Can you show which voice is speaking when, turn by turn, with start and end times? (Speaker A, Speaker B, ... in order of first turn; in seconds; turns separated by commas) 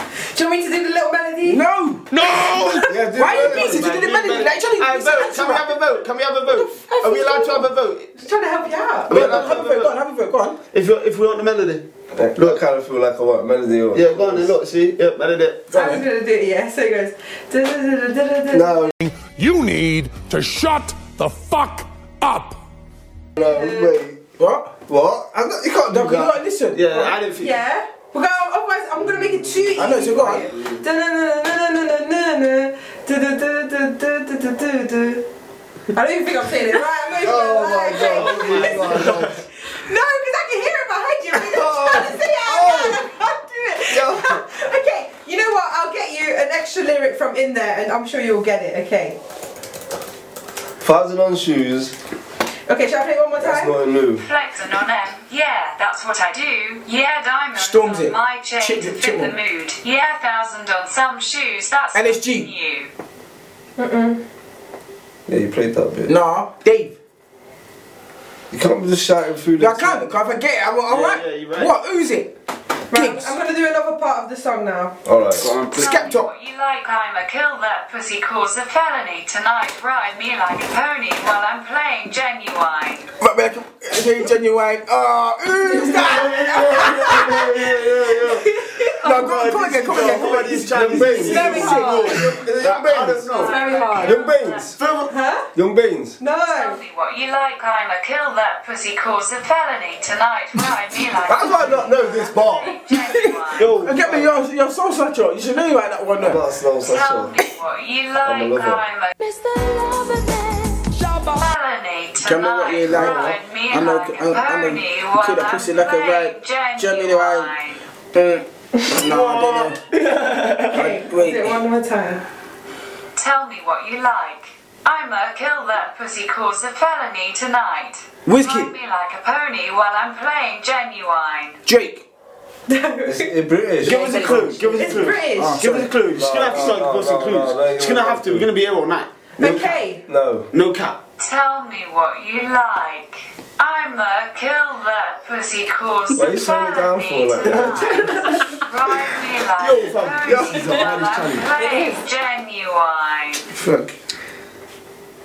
Speaker A: 0.3-1.6, Speaker B: 1.4-5.7, Speaker C: 2.1-3.0, Speaker D: 2.8-4.0, Speaker E: 3.2-8.1, Speaker A: 6.5-9.2, Speaker E: 9.1-10.0, Speaker B: 9.1-10.6, Speaker D: 9.1-9.7, Speaker E: 10.7-12.6, Speaker D: 12.2-14.5, Speaker E: 13.9-15.7, Speaker B: 15.7-16.0, Speaker A: 15.7-18.9, Speaker D: 18.5-18.9, Speaker C: 19.0-22.6, Speaker D: 23.4-24.2, Speaker A: 23.4-24.0, Speaker B: 24.4-24.7, Speaker D: 24.9-26.4, Speaker B: 25.9-27.1, Speaker E: 26.7-27.6, Speaker A: 27.4-35.2, Speaker E: 29.2-30.8, Speaker B: 29.8-30.5, Speaker A: 35.9-39.1, Speaker D: 37.2-39.4, Speaker E: 37.9-39.4, Speaker A: 39.6-49.2, Speaker D: 41.3-43.0, Speaker D: 43.9-44.4, Speaker D: 50.8-52.0, Speaker A: 52.7-53.8, Speaker D: 53.4-54.2, Speaker F: 54.2-62.9, Speaker B: 57.5-59.4, Speaker B: 61.9-62.5, Speaker A: 63.8-64.2, Speaker D: 65.3-66.1, Speaker B: 66.1-66.9, Speaker D: 68.5-70.1, Speaker B: 69.6-72.3, Speaker E: 70.9-71.8, Speaker A: 72.9-75.0, Speaker B: 72.9-73.3, Speaker D: 75.0-75.5, Speaker E: 75.3-76.1, Speaker F: 75.7-83.1, Speaker B: 75.8-76.3, Speaker B: 83.2-92.3, Speaker E: 85.7-93.7, Speaker D: 90.7-93.5, Speaker G: 91.3-92.1, Speaker A: 91.7-91.9, Speaker F: 93.3-94.8, Speaker G: 93.4-94.2, Speaker D: 94.0-94.7, Speaker E: 94.8-95.1, Speaker A: 95.1-95.5, Speaker D: 95.5-96.2, Speaker A: 96.2-96.8, Speaker F: 96.5-103.7, Speaker D: 101.3-102.7, Speaker B: 102.9-106.4, Speaker E: 103.6-104.3, Speaker D: 106.2-107.3, Speaker F: 106.8-109.2, Speaker D: 108.2-108.8, Speaker G: 109.2-111.4, Speaker F: 111.3-117.8, Speaker B: 112.2-117.5, Speaker B: 118.1-119.8, Speaker E: 119.0-121.0, Speaker B: 120.7-121.6, Speaker A: 120.7-122.2, Speaker F: 123.2-131.6, Speaker B: 128.3-128.7, Speaker B: 131.7-132.0, Speaker A: 132.7-133.3, Speaker D: 133.1-134.2, Speaker E: 133.8-139.1, Speaker G: 133.9-134.7, Speaker B: 133.9-134.6, Speaker A: 134.8-135.6, Speaker B: 135.3-135.9, Speaker D: 136.1-138.5, Speaker A: 139.4-140.0, Speaker D: 139.4-140.5, Speaker E: 140.5-141.0, Speaker F: 141.2-153.4, Speaker D: 146.1-148.2, Speaker E: 147.4-148.4, Speaker E: 149.6-151.5, Speaker G: 151.6-152.0, Speaker E: 153.5-153.9